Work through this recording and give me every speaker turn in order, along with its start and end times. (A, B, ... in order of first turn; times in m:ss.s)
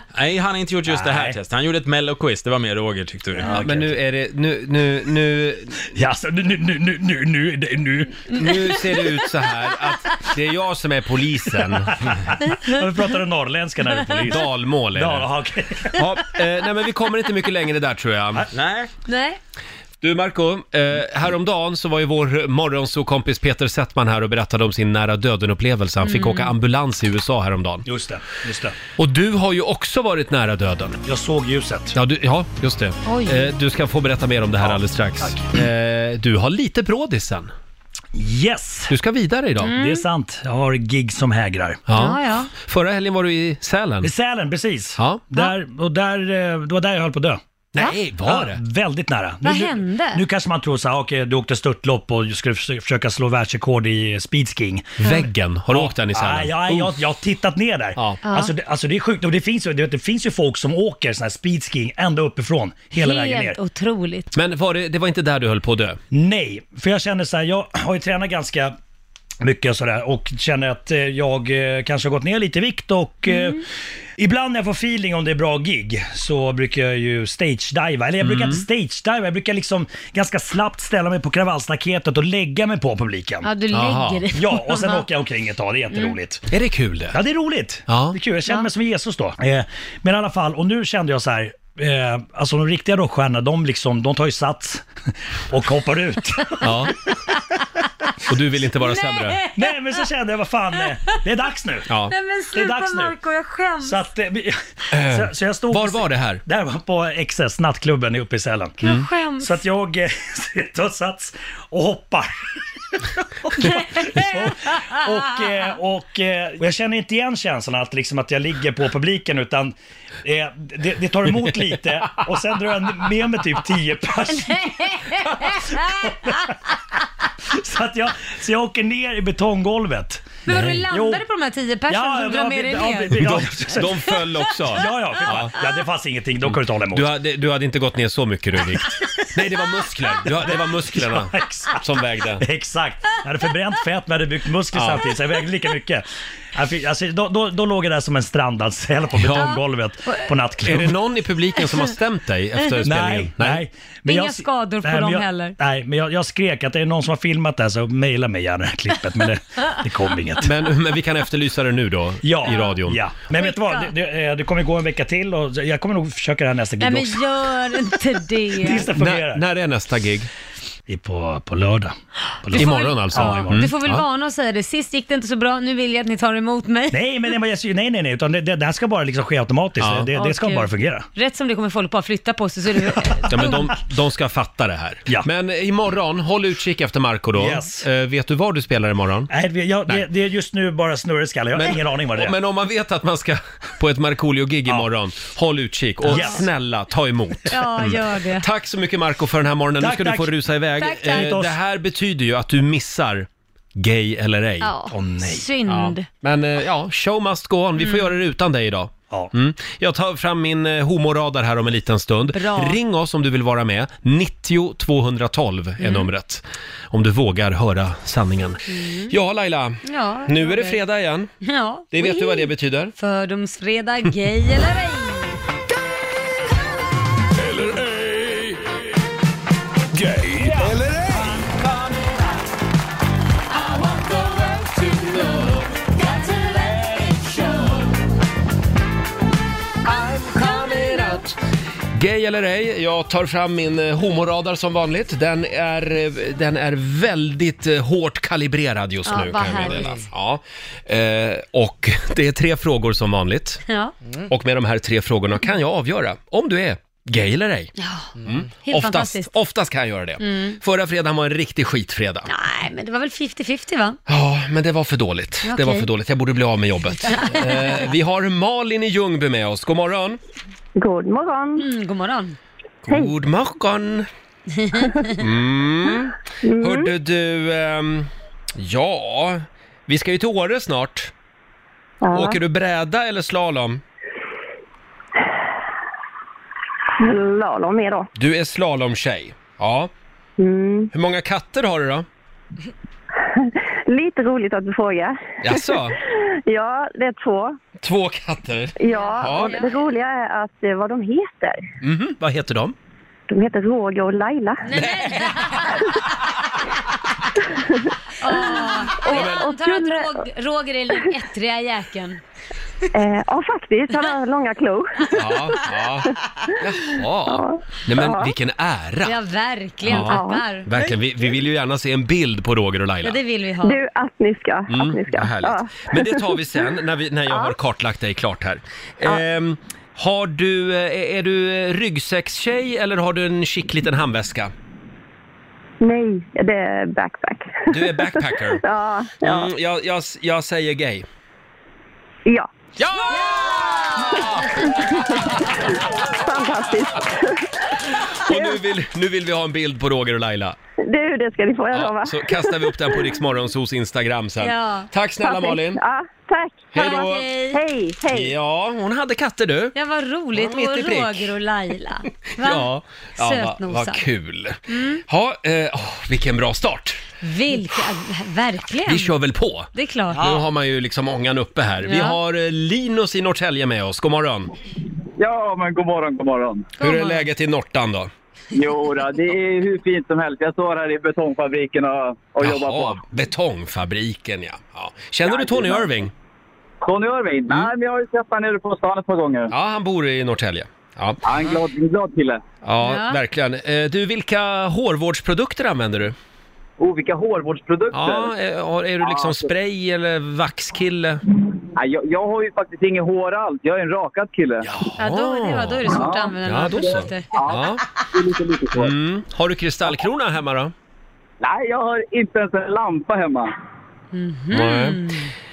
0:00.1-0:03.6 A
0:00.8-0:01.4 B
0:03.3-0:03.9 B
0:03.5-0:05.8 C
0:05.9-0:08.3 B
0:08.3-0:12.1 C
0:11.8-0:12.1 B
0:12.6-0:16.1 B
0:14.2-0:15.3 C
0:15.9-0:18.5 C
0:18.5-0:18.9 A
0:19.0-0:19.4 D
0:20.0-0:27.8 C
0:26.0-0:26.5 D
0:27.8-0:28.7 B
0:29.0-0:31.0 C
0:31.0-0:32.0 B
0:31.9-0:37.5 C
0:33.0-0:33.5 D
0:34.6-0:35.5 B
0:38.1-0:38.9 B
0:38.9-0:39.7 C
0:39.6-0:40.0 D
0:39.6-0:41.8 B
0:41.9-0:44.1 C
0:41.9-0:42.5 D
0:44.0-0:47.4 B
0:45.0-0:45.2 C
0:47.7-0:48.6 C
0:48.2-1:03.6 B
0:49.4-0:50.2 D
0:55.0-0:57.0 C
0:58.0-0:58.2 C
0:58.2-0:58.5 D
1:03.0-1:04.3 D
1:04.3-1:06.0 C
1:06.1-1:08.7 B
1:09.4-1:13.6 B
1:13.3-1:13.6 D
1:14.2-1:23.5 B
1:18.2-1:18.6 C
1:23.4-1:25.0 D
1:23.7-1:24.3 C
1:24.3-1:26.4 B
1:26.5-1:27.2 C
1:27.1-1:34.8 B
1:27.9-1:28.2 C
1:35.5-1:36.9 B
1:36.6-1:37.0 C
1:38.2-1:39.4 C
1:38.8-1:40.0 D
1:39.6-1:41.9 B
1:40.7-1:41.2 D
1:41.9-1:42.1 C
1:42.1-1:44.0 D
1:42.5-1:43.2 B
1:43.8-1:48.8 B
1:44.9-1:46.4 C
1:48.8-1:49.6 D
1:49.4-1:52.4 B
1:53.5-2:05.4 B
1:53.8-1:54.5 D
2:04.3-2:06.2 D
2:06.0-2:06.5 B
2:07.5-2:11.2 B
2:10.4-2:13.3 D
2:11.9-2:14.1 B
2:13.1-2:15.5 C
2:14.7-2:17.1 B
2:16.5-2:22.4 C
2:20.3-2:21.8 B
2:22.4-2:31.0 B
2:24.7-2:25.1 C
2:29.1-2:29.5 C
2:30.6-2:33.6 C
2:32.8-2:40.5 B
2:34.0-2:35.5 D
2:40.4-2:43.0 C
2:42.2-2:47.2 B
2:42.4-2:42.8 D
2:43.3-2:43.9 D
2:46.8-2:48.9 D
2:48.5-2:49.4 B
2:49.0-2:50.3 C
2:50.9-2:53.7 B
2:52.5-2:57.0 D
2:52.5-2:54.0 C
2:56.9-3:01.1 B
2:59.8-3:00.1 C
3:00.1-3:03.6 D
3:03.3-3:09.3 C
3:07.3-3:07.9 B
3:09.3-3:12.4 B
3:11.5-3:24.7 C
3:16.0-3:16.5 B
3:16.1-3:16.4 D
3:17.5-3:18.4 D
3:19.8-3:20.3 B
3:20.8-3:21.4 D
3:21.1-3:21.5 B
3:24.6-3:26.1 D
3:24.9-3:25.5 B
3:25.6-3:41.3 C
3:27.8-3:28.2 D
3:32.3-3:32.8 D
3:35.8-3:36.1 D
3:38.7-3:39.1 D
3:39.8-3:40.8 D
3:41.4-3:45.4 D
3:41.9-3:42.9 C
3:47.4-3:48.6 E
3:49.9-3:51.4 E
3:56.0-3:57.3 D
3:59.9-4:01.4 C
4:00.7-4:01.0 D
4:01.9-4:13.6 C
4:09.0-4:10.0 D
4:13.7-4:13.9 D
4:14.3-4:22.3 C
4:17.8-4:18.1 D
4:18.6-4:19.3 D
4:20.2-4:20.6 D
4:22.3-4:24.0 D
4:24.1-4:30.2 C
4:25.4-4:25.9 D
4:27.0-4:27.8 D
4:30.8-4:31.6 F
4:31.6-4:32.4 D
4:32.8-4:34.1 C
4:34.6-4:34.9 D
4:35.2-4:41.1 C
4:36.4-4:36.9 F
4:42.0-4:42.4 F
4:42.1-4:43.8 C
4:47.0-4:48.1 F
4:48.1-4:49.9 C
4:50.4-4:50.9 F
4:50.9-4:52.0 C
4:53.4-4:55.6 F
4:55.4-4:56.0 C
4:56.2-4:57.6 F
4:57.8-4:59.6 C
4:58.8-5:01.6 F
4:58.9-4:59.8 D
5:01.8-5:02.7 C
5:03.3-5:04.6 F
5:04.6-5:05.7 D
5:08.2-5:12.2 D
5:08.4-5:10.1 F
5:09.1-5:09.4 C
5:12.9-5:15.6 F
5:15.1-5:19.2 C
5:17.3-5:18.3 F
5:19.0-5:20.9 D
5:19.8-5:23.2 C
5:20.0-5:20.4 F
5:23.0-5:23.8 D
5:23.6-5:26.3 F
5:24.7-5:34.5 C
5:35.8-5:39.5 F
5:37.7-5:38.6 C
5:39.2-5:41.0 C
5:42.8-5:45.5 C
5:44.7-5:47.5 F
5:47.9-5:50.6 C
5:48.3-5:48.6 F
5:50.8-5:53.0 F
5:51.7-5:55.8 C
5:54.4-5:54.9 D
5:55.2-5:57.0 F
5:56.7-5:57.3 C
5:56.8-5:57.6 D
5:57.5-5:58.3 F
5:58.1-5:59.8 C
5:59.7-6:04.0 D
6:00.3-6:01.3 C
6:02.4-6:07.0 C
6:04.7-6:05.0 D
6:07.2-6:09.1 D
6:08.8-6:14.5 C
6:09.7-6:10.2 D
6:11.8-6:12.2 D
6:15.2-6:16.7 G
6:16.8-6:17.2 D
6:16.8-6:18.1 C
6:18.5-6:23.0 G
6:22.4-6:26.1 C
6:25.2-6:26.0 G
6:26.8-6:29.5 G
6:29.5-6:31.2 C
6:31.2-6:32.4 G
6:32.6-6:36.1 C
6:32.8-6:33.2 D
6:36.8-6:38.3 G
6:37.9-6:41.2 C
6:39.0-6:39.5 G
6:41.7-6:44.6 G
6:44.6-6:47.8 C
6:45.0-6:47.3 D
6:45.9-6:48.9 G
6:48.7-6:50.7 C
6:51.4-6:53.5 G
6:54.1-6:55.3 D
6:54.5-6:55.1 C